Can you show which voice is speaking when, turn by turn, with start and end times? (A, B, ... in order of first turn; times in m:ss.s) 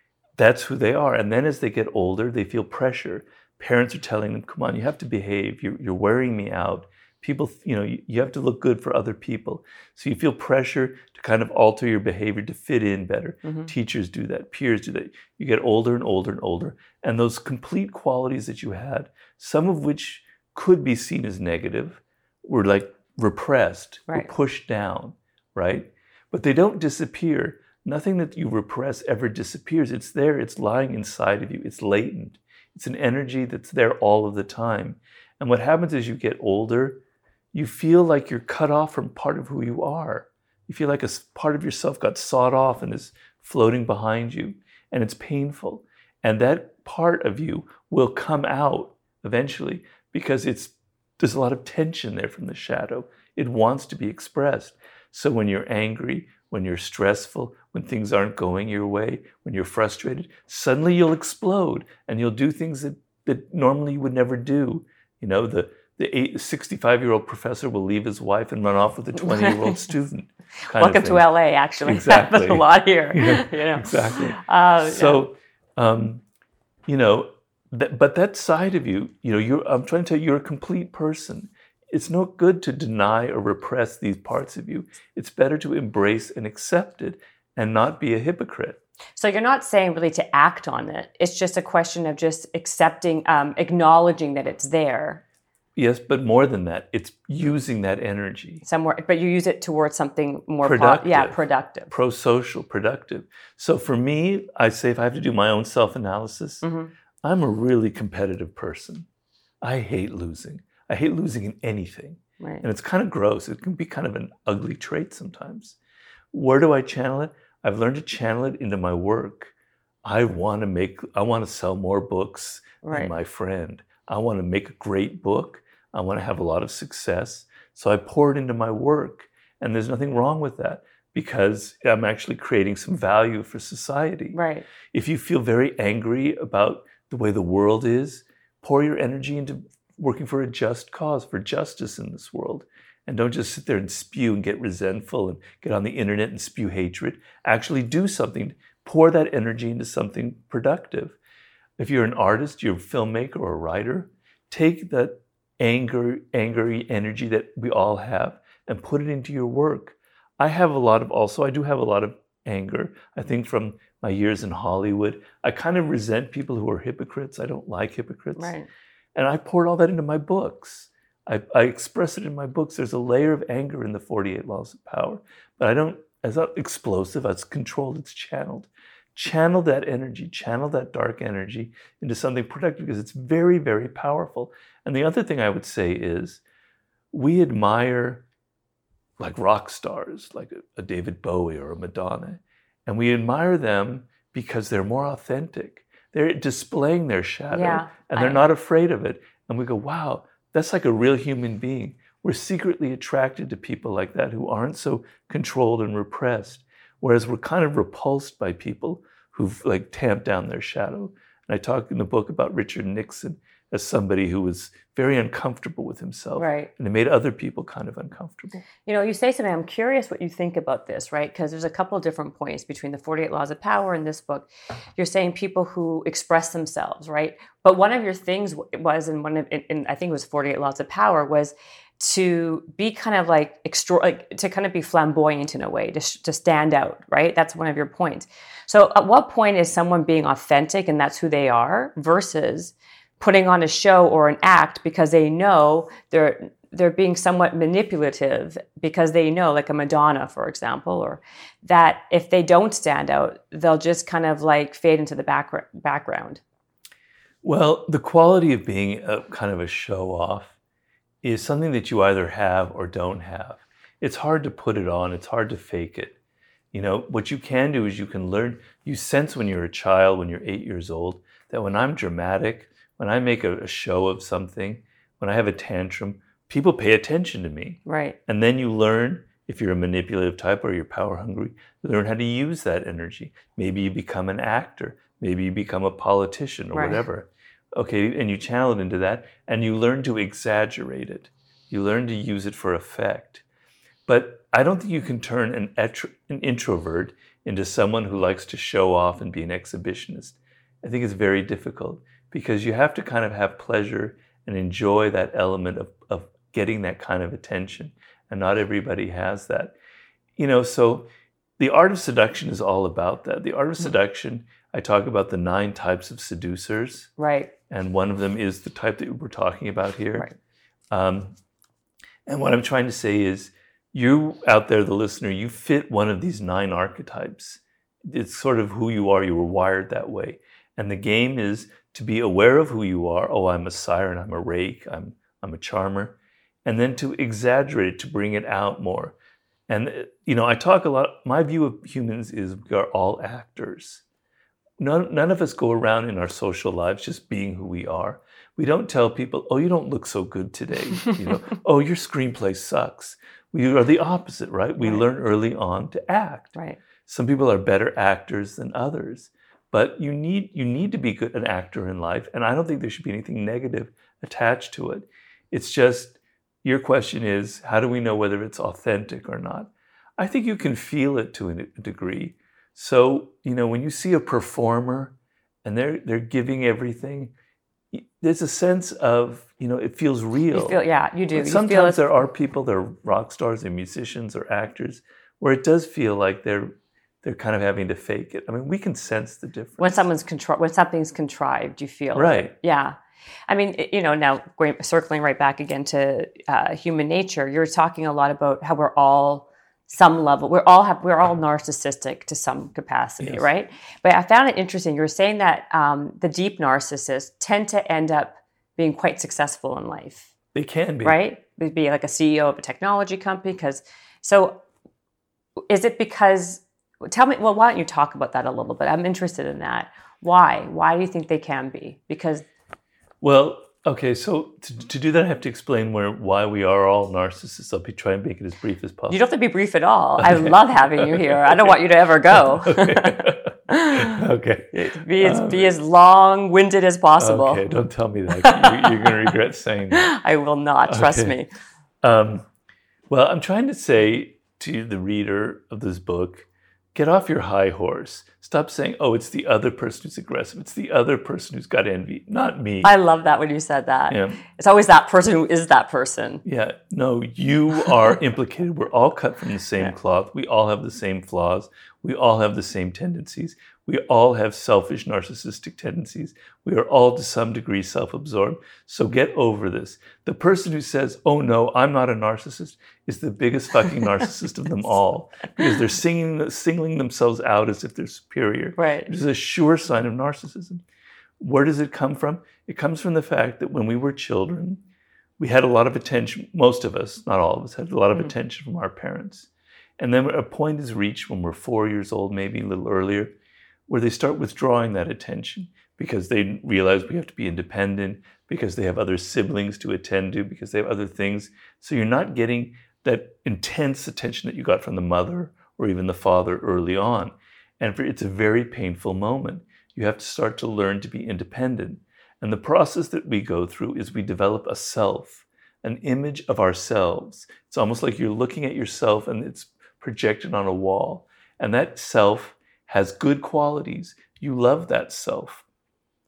0:00.4-0:37.0 A
0:13.4-0:13.7 B
0:37.5-1:11.3 A
1:09.3-1:09.8 B
1:10.7-1:15.2 B
1:11.8-1:16.2 A
1:16.9-1:28.8 A
1:29.2-1:35.2 B
1:35.8-1:38.6 A
1:38.6-1:41.9 B
1:40.6-1:41.4 A
1:41.9-1:46.6 A
1:46.6-1:46.9 B
1:47.2-1:49.1 A
1:49.6-1:55.8 A
1:56.3-1:59.5 A
2:00.0-2:14.4 A
2:02.8-2:03.1 B
2:14.3-2:14.7 B
2:14.9-2:31.2 A
2:31.8-2:48.6 A
2:48.4-2:48.7 B
2:49.2-3:06.4 A
3:07.1-3:08.2 A
3:09.2-3:38.6 A
3:17.5-3:18.4 B
3:36.4-3:36.7 B
3:38.8-4:16.4 B
4:17.4-4:20.5 A
4:21.2-4:26.2 A
4:26.7-4:53.4 A
4:37.9-4:38.2 B
4:46.7-4:47.0 B
4:54.1-5:09.7 A
5:10.4-5:17.1 A
5:17.2-5:17.5 B
5:17.7-5:20.3 A
5:20.9-5:21.4 A
5:22.3-5:39.2 A
5:39.7-5:44.0 A
5:44.8-5:56.5 A
5:57.1-6:17.3 A
6:17.9-6:20.8 A
6:20.5-6:22.1 B
6:21.3-6:30.1 A
6:29.8-6:33.0 B
6:32.1-6:32.5 A
6:33.5-6:50.3 B
6:43.2-6:43.5 A
6:50.5-6:51.2 A
6:51.0-6:54.6 B
6:55.7-7:02.4 B
7:03.2-7:09.2 A
7:09.1-7:17.6 B
7:10.2-7:11.7 A
7:12.3-7:15.8 A
7:17.2-7:20.1 A
7:18.3-7:19.3 B
7:19.9-7:21.5 B
7:20.9-7:21.4 A
7:22.0-7:22.5 A
7:23.1-7:32.9 A
7:32.8-7:36.4 B
7:34.1-7:34.4 A
7:36.4-8:00.8 A
7:58.8-7:59.1 B
8:01.4-8:04.8 A
8:05.4-8:13.3 A
8:13.9-8:45.6 A